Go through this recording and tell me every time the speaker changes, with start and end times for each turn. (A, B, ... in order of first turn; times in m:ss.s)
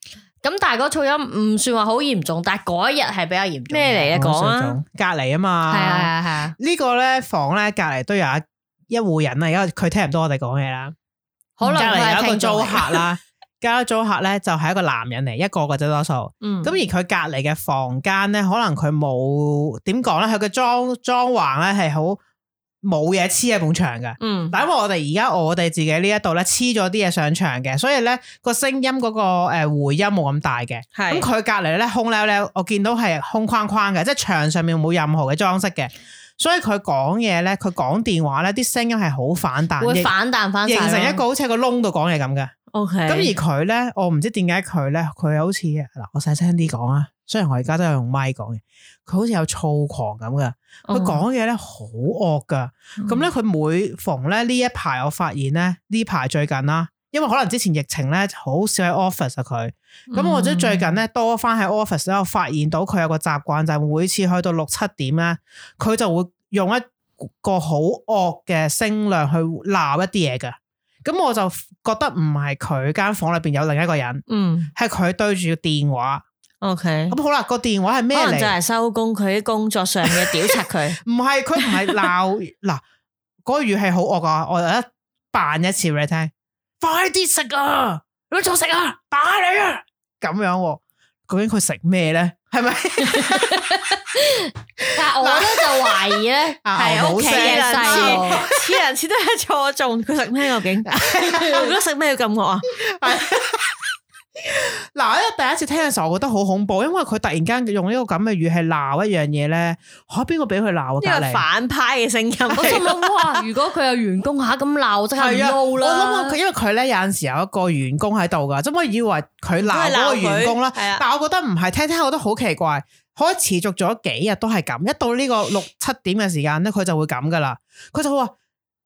0:00.4-0:04.1 A
0:03.7-0:04.8 B
0:04.1-0:10.9 C
0:05.7-0:06.5 A
0:11.6-0:13.0 A
0:11.7-0:22.2 C
0:16.4-0:16.7 B
0:22.8-0:40.1 C
0:24.2-0:24.6 B
0:30.9-0:31.3 B
0:39.8-0:41.2 A
0:40.6-0:42.5 C
0:42.7-0:43.3 B
0:43.1-1:14.2 C
0:50.9-0:51.2 B
0:53.0-0:53.2 B
1:00.1-1:00.9 B
1:14.3-1:14.7 B
1:14.7-1:16.2 C
1:16.6-1:17.2 B
1:17.1-1:18.5 C
1:18.1-1:21.0 B
1:20.1-1:22.8 C
1:21.6-1:22.0 B
1:23.4-1:33.8 C
1:33.4-1:38.4 A
1:35.1-1:36.0 C
1:36.6-1:38.8 C
1:36.8-1:42.8 B
1:40.9-1:41.7 C
1:42.8-1:43.8 C
1:44.4-1:51.4 C
1:51.0-1:53.0 B
1:52.5-1:56.4 A
1:55.2-2:08.3 C
1:59.6-2:01.0 B